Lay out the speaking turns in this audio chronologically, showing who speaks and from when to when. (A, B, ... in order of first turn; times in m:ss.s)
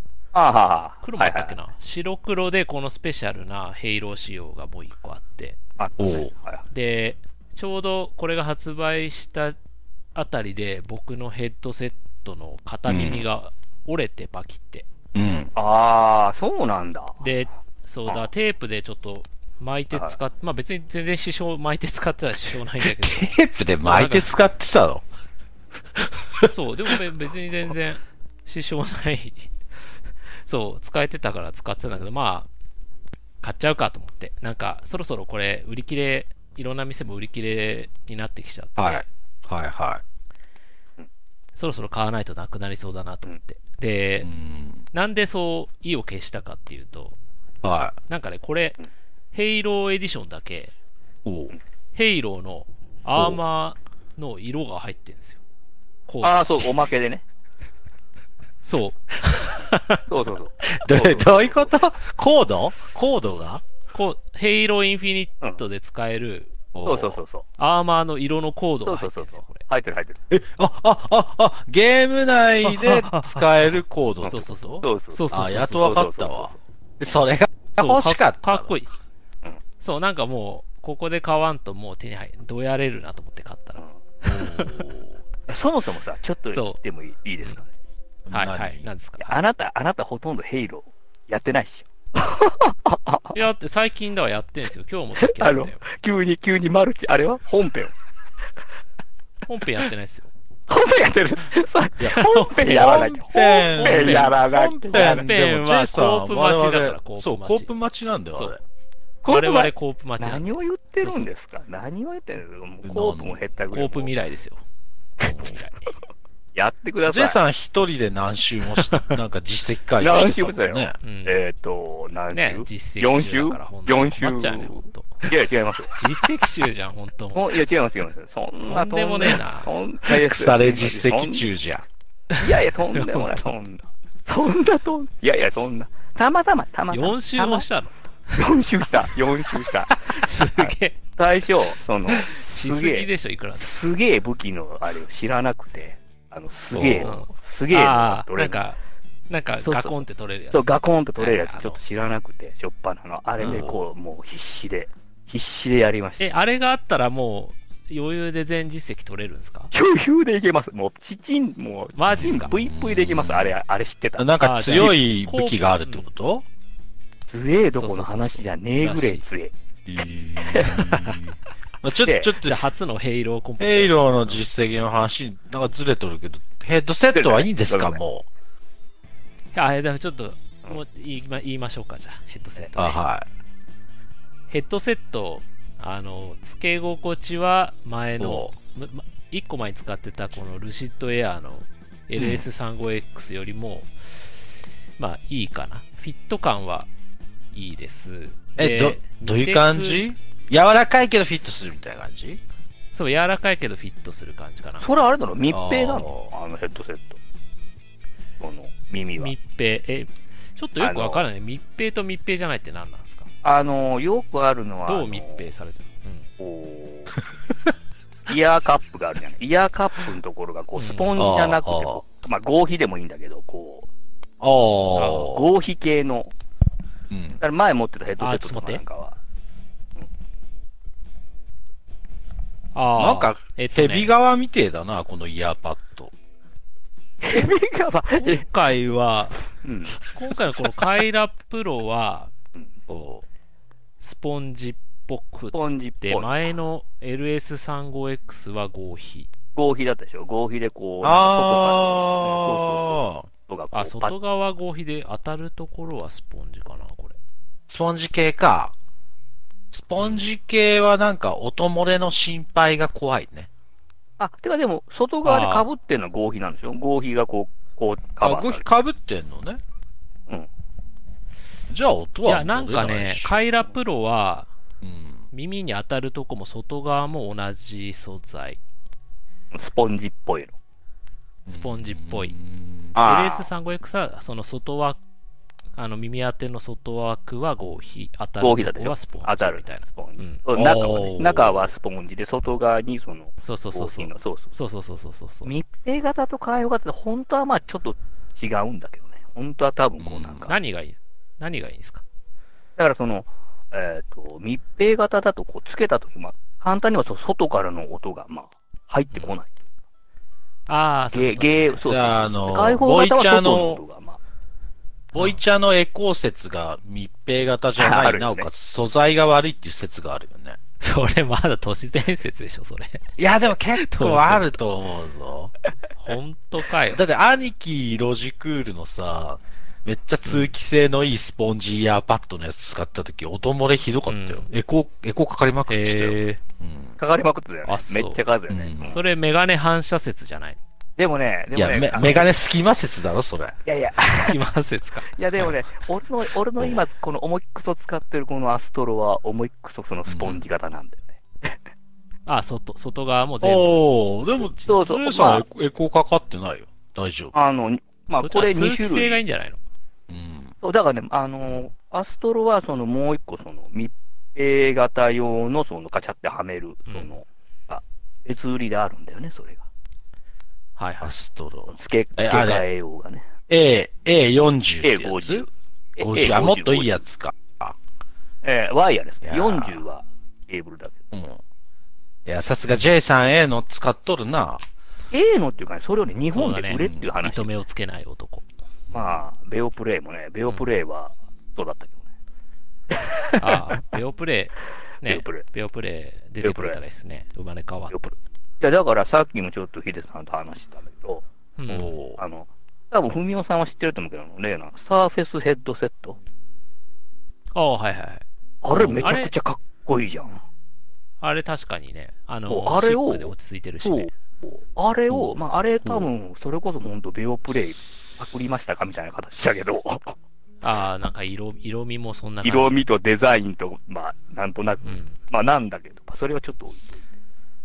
0:00.3-0:01.5 A
0:01.0-0:05.6 B
0:05.8-0:06.6 A
0:06.0-0:06.3 C
0:06.7-0:09.6 B
0:10.1-0:14.8 B
0:12.9-0:13.2 C
0:15.1-0:15.5 C
0:15.5-0:17.2 A
0:17.2-0:24.3 B
0:22.8-0:25.0 C
0:26.0-0:26.5 C
0:26.4-0:29.5 B
0:30.4-0:32.5 B
0:33.4-0:39.0 B
0:38.8-0:40.0 C
0:41.5-0:44.3 B
0:44.2-0:44.8 C
0:44.9-0:47.2 B
0:47.6-0:48.0 C
0:48.1-0:48.8 B
0:49.3-0:50.7 B
0:51.2-0:51.5 C
0:51.9-0:55.4 B
0:53.1-0:53.4 C
0:56.1-0:56.7 B
0:56.2-0:57.2 A
0:58.6-1:00.0 B
1:00.1-1:01.7 A
1:00.6-1:03.6 C
1:03.9-1:06.5 B
1:06.7-1:07.2 C
1:06.8-1:07.4 A
1:07.6-1:09.6 B
1:08.8-1:10.2 A
1:10.3-1:18.7 C
1:12.8-1:13.2 A
1:14.2-1:15.2 A
1:14.3-1:16.0 B
1:15.8-1:16.5 A
1:17.8-1:18.9 B
1:19.8-1:24.8 B
1:24.2-1:25.2 C
1:25.5-1:27.7 A
1:26.5-1:26.8 B
1:28.2-1:28.8 C
1:28.3-1:29.4 B
1:29.2-1:33.4 A
1:33.3-1:35.8 B
1:35.2-1:37.9 A
1:39.4-1:40.3 B
1:40.7-1:45.3 A
1:42.0-1:48.6 C
1:42.1-1:44.4 B
1:44.9-1:47.7 B
1:49.2-1:54.1 A
1:49.2-1:51.3 B
1:52.8-1:53.4 C
1:53.7-1:54.6 B
1:55.2-1:55.5 C
1:55.4-1:55.8 B
1:56.5-1:57.4 A
1:57.0-2:01.0 C
2:00.0-2:05.9 A
2:01.0-2:01.4 B
2:02.3-2:05.3 B
2:05.9-2:07.5 B
2:07.3-2:11.4 A
2:08.6-2:09.7 B
2:10.1-2:11.8 C
2:12.3-2:13.4 B
2:12.4-2:17.7 A
2:16.9-2:18.6 B
2:18.3-2:23.1 A
2:19.1-2:21.0 B
2:22.1-2:23.8 B
2:23.6-2:28.6 A
2:26.7-2:27.1 C
2:27.0-2:28.8 B
2:29.3-2:31.8 B
2:29.6-2:36.3 A
2:33.4-2:33.8 C
2:33.4-2:33.7 B
2:36.2-2:39.7 B
2:39.7-2:44.9 A
2:42.0-2:42.5 B
2:42.1-2:43.6 C
2:44.2-2:46.4 C
2:44.4-2:46.1 B
2:47.3-2:49.5 A
2:47.8-2:48.5 B
2:48.8-2:49.2 C
2:49.8-2:52.6 C
2:50.4-2:50.8 A
2:52.0-2:52.3 A
2:52.4-2:54.4 B
2:53.6-2:58.2 C
2:57.1-2:58.0 A
2:59.5-3:03.0 B
3:02.8-3:03.2 C
3:04.5-3:14.4 B
3:08.2-3:08.5 C
3:12.2-3:12.4 C
3:15.0-3:16.9 B
3:17.5-3:20.1 B
3:18.6-3:22.4 C
3:22.9-3:24.9 B
3:24.8-3:27.2 A
3:25.5-3:26.3 C
3:28.4-3:29.3 A
3:29.2-3:33.3 B
3:30.8-3:31.3 A
3:33.4-3:35.5 A
3:34.9-3:36.3 B
3:36.4-3:37.2 A
3:38.3-3:43.9 A
3:40.8-3:41.1 B
3:41.2-3:42.0 C
3:44.4-3:45.5 C
3:44.9-3:45.3 B
3:45.1-3:46.3 A
3:47.1-3:47.4 C
3:47.4-3:49.2 A
3:48.2-3:48.8 B
3:52.7-3:54.1 B
3:53.0-3:56.1 C
3:57.2-3:58.4 A
3:58.2-3:59.4 B
3:59.6-4:00.0 A
4:00.0-4:02.3 B
4:02.9-4:03.2 C
4:04.0-4:09.3 B
4:05.5-4:06.5 A
4:09.5-4:14.1 A
4:11.0-4:13.3 C
4:13.7-4:17.2 B
4:17.7-4:18.7 C
4:19.7-4:23.5 C
4:24.2-4:28.6 A
4:25.2-4:25.7 B
4:28.2-4:29.6 C
4:31.7-4:33.4 C
4:32.2-4:34.5 B
4:34.8-4:35.3 C
4:35.3-4:38.6 B
4:39.5-4:40.5 A
4:41.4-4:42.9 C
4:41.5-4:42.4 B
4:42.9-4:43.5 A
4:42.9-4:45.0 B
4:45.8-4:50.4 B
4:48.4-4:54.5 A
4:50.5-4:51.7 C
4:53.4-4:55.5 B
4:55.4-5:00.5 A
5:00.0-5:00.5 C
5:00.5-5:02.0 B
5:02.8-5:09.6 A
5:10.7-5:11.8 B
5:11.1-5:14.2 A
5:11.8-5:13.8 C
5:15.1-5:20.6 C
5:17.8-5:18.5 A
5:20.8-5:23.0 B
5:23.2-5:25.5 C
5:23.8-5:24.6 B
5:26.0-5:27.0 B
5:26.9-5:36.9 C
5:30.2-5:30.5 B
5:34.1-5:34.5 B
5:35.7-5:36.4 B
5:37.0-5:39.0 A
5:37.6-5:38.2 B
5:38.5-5:39.0 C
5:38.8-5:40.6 B
5:41.0-5:42.4 A
5:41.6-5:43.6 C
5:43.6-5:44.4 A
5:44.0-5:45.5 B
5:45.1-5:51.5 A
5:50.1-5:50.4 C
5:52.3-5:54.7 B
5:53.4-5:57.3 C
5:54.7-5:55.4 A
5:57.3-5:59.2 A
5:58.2-5:59.6 B
6:00.1-6:00.5 C
6:00.6-6:09.6 A
6:06.9-6:07.2 B
6:10.8-6:11.1 B
6:11.0-6:12.6 C
6:11.7-6:13.3 A
6:13.5-6:15.4 C
6:14.8-6:17.0 A
6:16.0-6:17.8 C
6:18.4-6:21.0 A
6:19.2-6:19.8 C
6:21.1-6:21.4 C
6:22.2-6:24.6 C
6:25.1-6:27.5 A
6:26.3-6:28.4 B
6:26.8-6:27.1 C
6:28.9-6:32.0 A
6:33.0-6:33.6 A
6:33.4-6:37.9 B
6:35.0-6:35.4 A
6:36.4-6:36.8 A
6:37.9-6:41.2 A
6:41.6-6:42.0 B
6:41.7-6:42.2 C
6:42.2-6:46.2 A
6:47.5-6:49.3 B
6:48.6-6:50.4 A
6:51.2-6:54.1 B
6:52.5-7:00.2 A
7:00.6-7:02.7 B
7:02.4-7:07.0 A
7:04.8-7:05.2 B